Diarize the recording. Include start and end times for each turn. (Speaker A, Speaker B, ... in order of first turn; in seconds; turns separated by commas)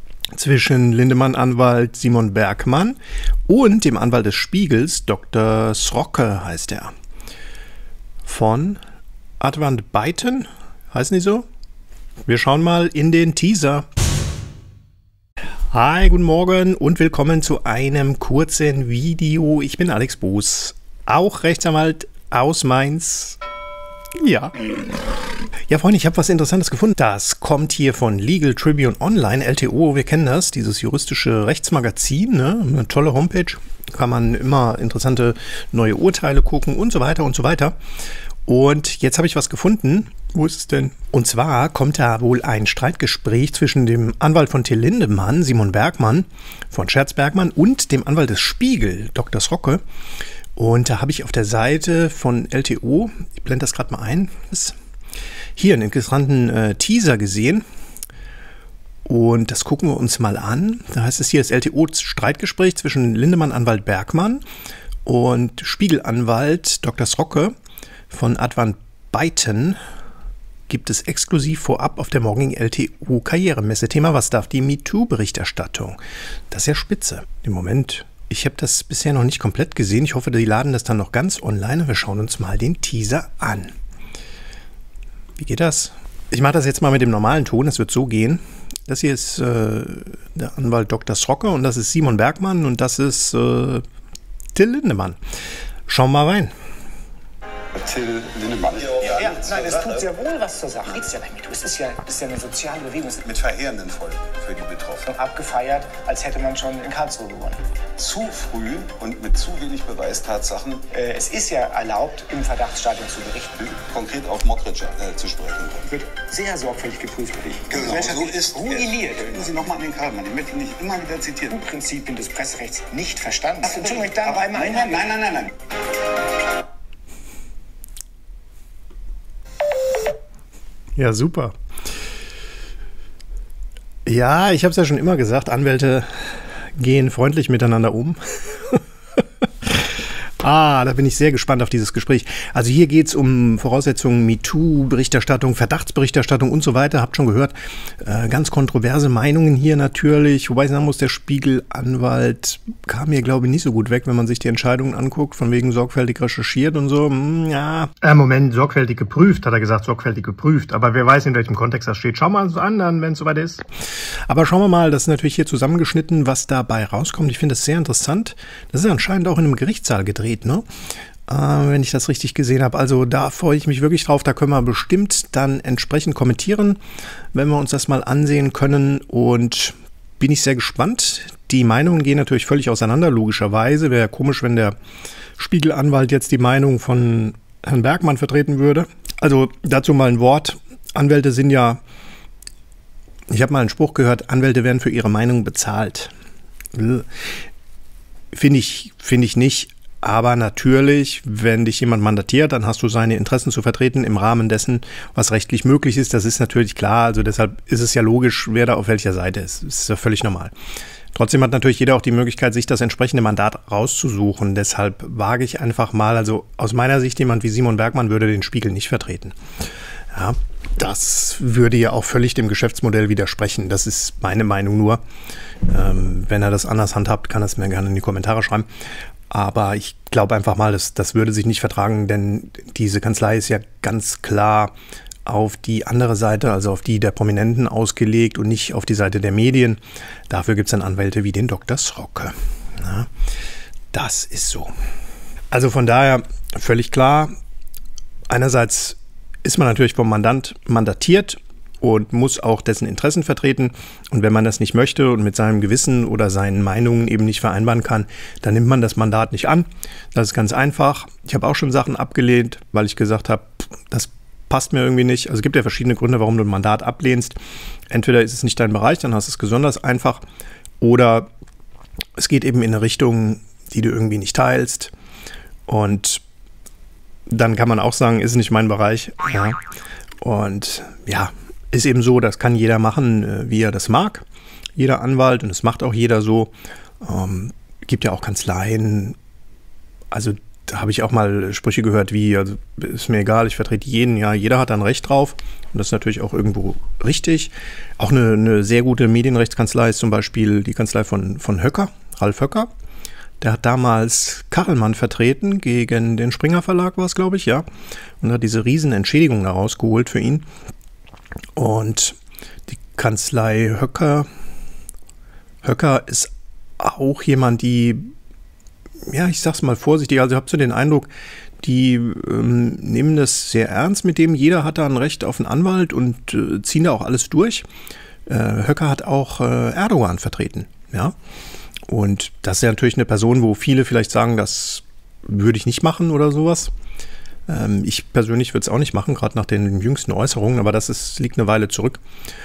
Speaker A: 0.3-6.9, Speaker A: 8.2-8.8, Speaker A: 9.4-11.5, Speaker A: 12.2-13.9, Speaker A: 15.7-23.4, Speaker A: 24.2-24.7, Speaker A: 25.7-37.7, Speaker A: 38.5-49.8, Speaker A: 50.5-54.8, Speaker A: 55.5-57.6, Speaker A: 59.0-64.4, Speaker A: 65.1-67.5, Speaker A: 68.1-69.8, Speaker A: 70.7-76.0, Speaker A: 76.5-83.8, Speaker A: 85.4-93.8, Speaker A: 94.5-95.2, Speaker A: 95.9-96.5, Speaker B: 97.7-100.0, Speaker C: 99.2-103.2, Speaker B: 103.2-105.1, Speaker C: 105.0-107.6, Speaker B: 108.0-110.9, Speaker C: 110.9-113.7, Speaker B: 113.6-116.0, Speaker C: 115.9-119.5, Speaker B: 117.7-121.6, Speaker C: 121.5-125.2, Speaker B: 123.8-125.5, Speaker A: 131.0-131.5, Speaker A: 134.1-136.1, Speaker A: 136.8-138.8, Speaker A: 139.4-163.6, Speaker A: 164.3-170.6, Speaker A: 171.3-176.8, Speaker A: 177.3-184.7, Speaker A: 185.4-191.8, Speaker A: 193.3-196.1, Speaker A: 196.7-197.1, Speaker A: 198.3-210.5, Speaker A: 211.1-219.3, Speaker A: 220.1-225.0, Speaker A: 225.7-228.7, Speaker A: 229.3-234.7, Speaker A: 235.2-243.1, Speaker A: 243.9-244.7, Speaker A: 245.5-247.3, Speaker A: 248.3-267.4, Speaker A: 267.9-270.2, Speaker A: 270.8-271.3, Speaker A: 272.2-274.9, Speaker A: 275.7-276.2, Speaker A: 277.3-279.6, Speaker A: 280.2-284.2, Speaker A: 284.8-289.2, Speaker A: 290.1-302.7, Speaker A: 303.4-307.6, Speaker A: 308.2-310.4, Speaker A: 311.6-312.2, Speaker A: 312.7-314.3, Speaker A: 315.6-318.0, Speaker A: 319.1-321.1, Speaker A: 321.6-327.6, Speaker A: 328.2-331.1, Speaker A: 331.9-336.7, Speaker A: 337.5-342.0